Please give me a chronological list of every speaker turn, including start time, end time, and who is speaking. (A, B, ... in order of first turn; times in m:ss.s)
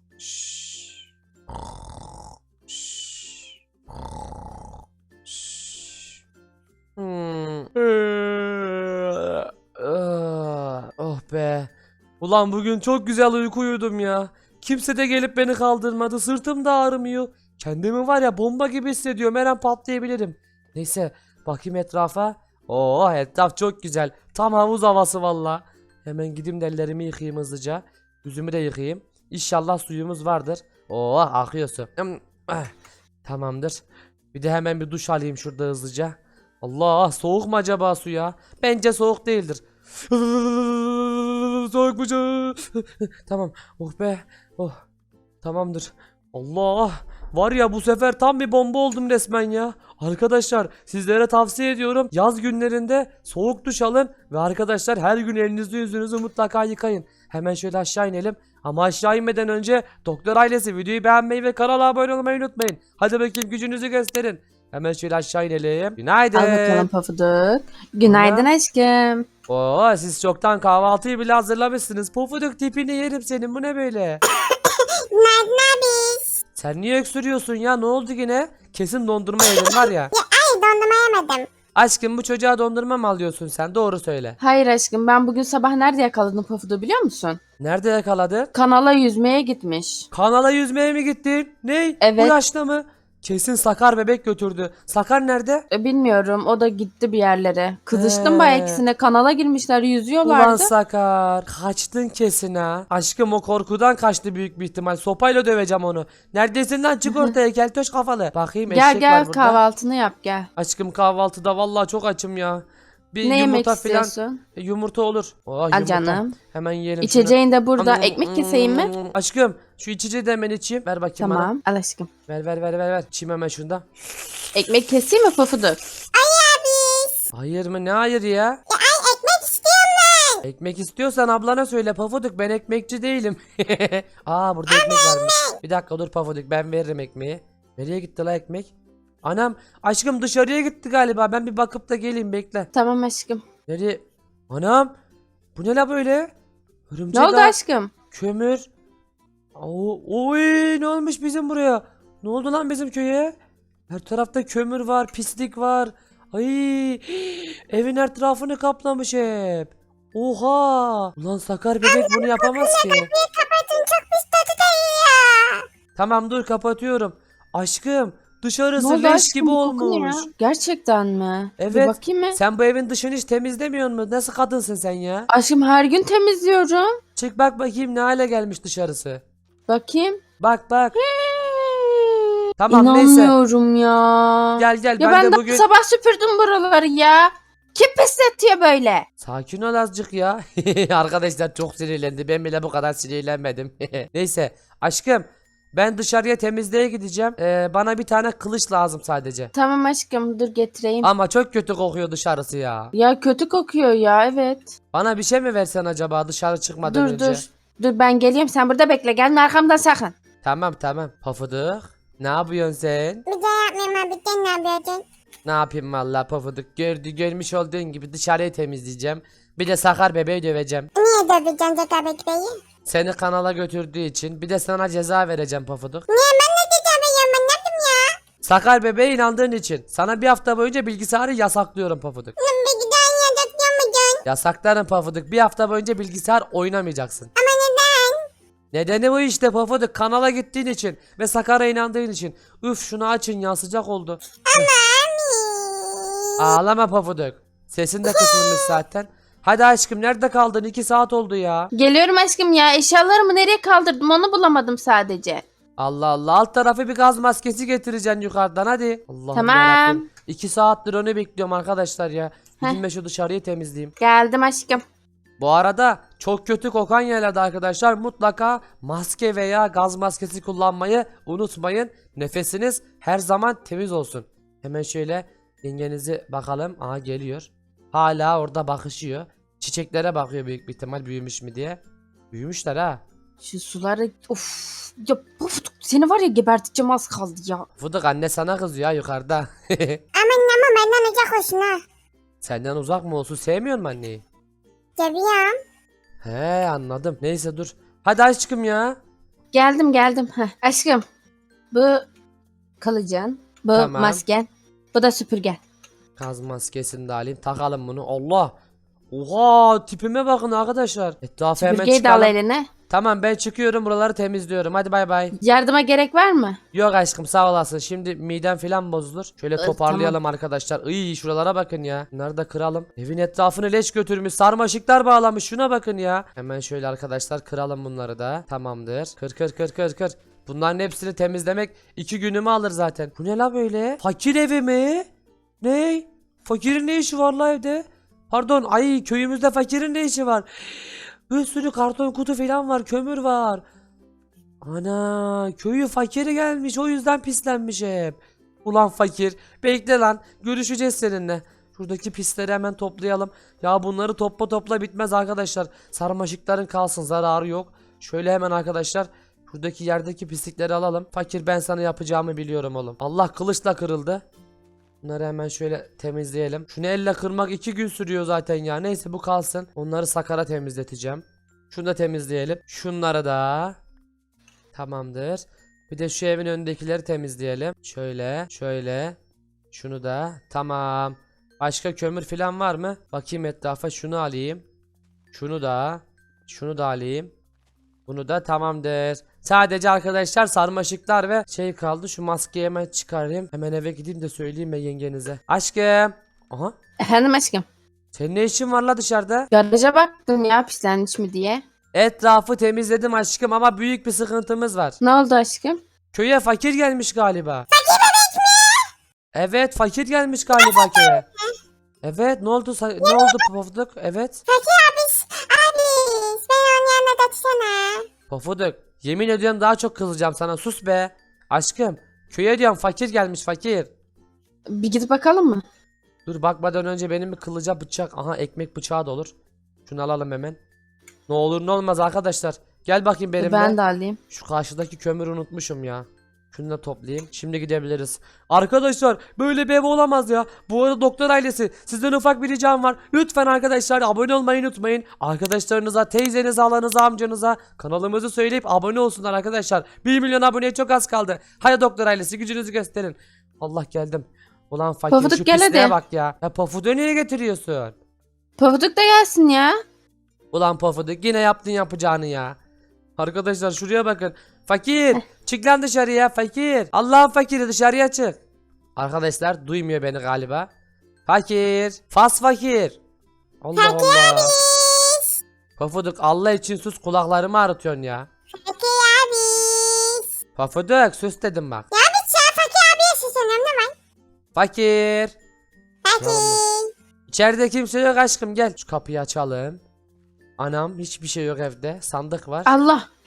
0:00.2-0:01.0 A
0:02.7-0:03.5 A
0:05.2-0:06.1 A
0:07.0-0:32.7 A
0:33.2-0:33.8 A
0:34.3-0:44.8 A
0:45.4-1:06.9 A
1:06.3-1:09.3 B
1:08.0-1:08.5 A
1:09.5-1:14.2 A
1:15.1-1:16.2 C
1:16.6-1:20.1 A
1:19.6-1:21.5 C
1:21.7-1:24.4 A
1:24.4-1:27.4 B
1:27.6-1:28.5 A
1:28.5-1:30.1 B
1:30.1-1:35.6 A
1:32.0-1:32.4 B
1:35.7-1:40.7 B
1:37.9-1:38.8 A
1:40.2-1:49.6 A
1:47.0-1:47.3 B
1:48.7-1:50.5 B
1:50.6-2:01.5 A
1:53.2-1:54.4 B
1:55.7-1:56.4 B
1:57.0-1:58.9 B
2:01.2-2:02.1 B
2:02.3-2:03.8 A
2:04.5-2:05.8 B
2:06.1-2:07.2 C
2:07.3-2:08.6 A
2:08.7-2:10.4 C
2:10.4-2:18.7 A
2:14.7-2:15.5 C
2:19.2-2:22.7 A
2:22.7-2:23.4 B
2:23.7-2:24.9 A
2:25.5-2:26.3 A
2:26.9-2:27.5 A
2:27.1-2:27.9 B
2:28.1-2:28.6 A
2:29.5-2:33.3 A
2:33.9-2:43.1 A
2:41.8-2:45.6 C
2:46.0-2:50.3 A
2:48.8-2:52.4 B
2:51.6-2:55.3 A
2:55.3-2:56.9 B
2:57.2-2:59.2 A
2:59.7-3:00.2 B
3:00.4-3:01.0 A
3:01.0-3:09.0 B
3:02.6-3:03.3 A
3:04.6-3:05.6 A
3:09.2-3:19.5 A
3:19.5-3:21.1 B
3:21.0-3:22.9 A
3:22.9-3:24.7 B
3:24.9-3:27.4 A
3:26.8-3:30.1 B
3:30.4-3:33.2 A
3:33.2-3:35.0 C
3:35.4-3:40.9 A
3:41.0-3:42.6 C
3:42.8-3:46.0 A
3:46.1-3:48.1 C
3:48.4-3:52.3 A
3:52.4-3:54.2 C
3:54.2-3:57.3 A
3:57.4-3:58.2 C
3:58.7-4:04.7 A
4:04.4-4:06.5 C
4:06.4-4:11.7 A
4:08.0-4:08.7 C
4:11.7-4:15.4 B
4:15.8-4:23.9 A
4:19.3-4:20.0 B
4:24.0-4:24.8 B
4:25.4-4:41.8 A
4:42.3-4:43.0 A
4:43.4-4:47.7 B
4:47.8-4:50.0 A
4:50.1-4:51.8 C
4:52.4-4:54.2 A
4:55.0-4:55.6 C
4:56.2-4:59.0 A
4:59.5-5:01.0 B
5:01.7-5:02.0 B
5:02.8-5:05.6 B
5:03.7-5:04.2 A
5:06.2-5:08.5 A
5:09.1-5:12.3 A
5:11.6-5:12.7 B
5:12.9-5:15.3 A
5:15.4-5:16.6 B
5:16.7-5:35.0 A
5:19.6-5:20.2 B
5:35.6-5:43.6 A
5:44.6-6:04.2 A
6:05.0-6:13.8 A
6:14.7-6:19.2 A
6:19.7-6:24.6 A
6:25.3-6:27.3 A
6:28.1-6:36.7 A
6:37.0-6:37.6 B
6:38.1-6:39.5 A
6:39.5-6:41.6 B
6:41.9-6:45.0 A
6:45.0-6:45.8 B
6:46.1-6:47.7 A
6:47.7-6:48.8 C
6:49.3-6:51.2 A
6:50.6-6:51.3 C
6:52.0-6:54.4 A
6:53.0-6:53.4 C
6:54.5-6:58.0 C
6:58.3-7:03.9 A
7:04.7-7:05.6 B
7:06.2-7:09.3 A
7:09.8-7:10.6 A
7:11.3-7:13.8 A
7:13.4-7:14.2 B
7:14.3-7:37.9 A
7:35.1-7:36.0 B
7:38.6-7:39.8 B
7:40.5-7:42.6 A
7:43.2-7:48.4 A
7:49.0-7:50.7 A
7:51.3-7:53.0 A
7:53.6-7:54.5 A
7:53.8-7:55.2 C
7:55.8-7:58.3 A
7:58.6-8:00.2 C
8:00.6-8:01.9 A
8:01.9-8:03.9 C
8:04.5-8:05.3 A
8:06.0-8:06.9 C
8:06.2-8:06.6 A
8:07.3-8:09.8 A
8:10.6-8:12.7 A
8:12.6-8:13.0 B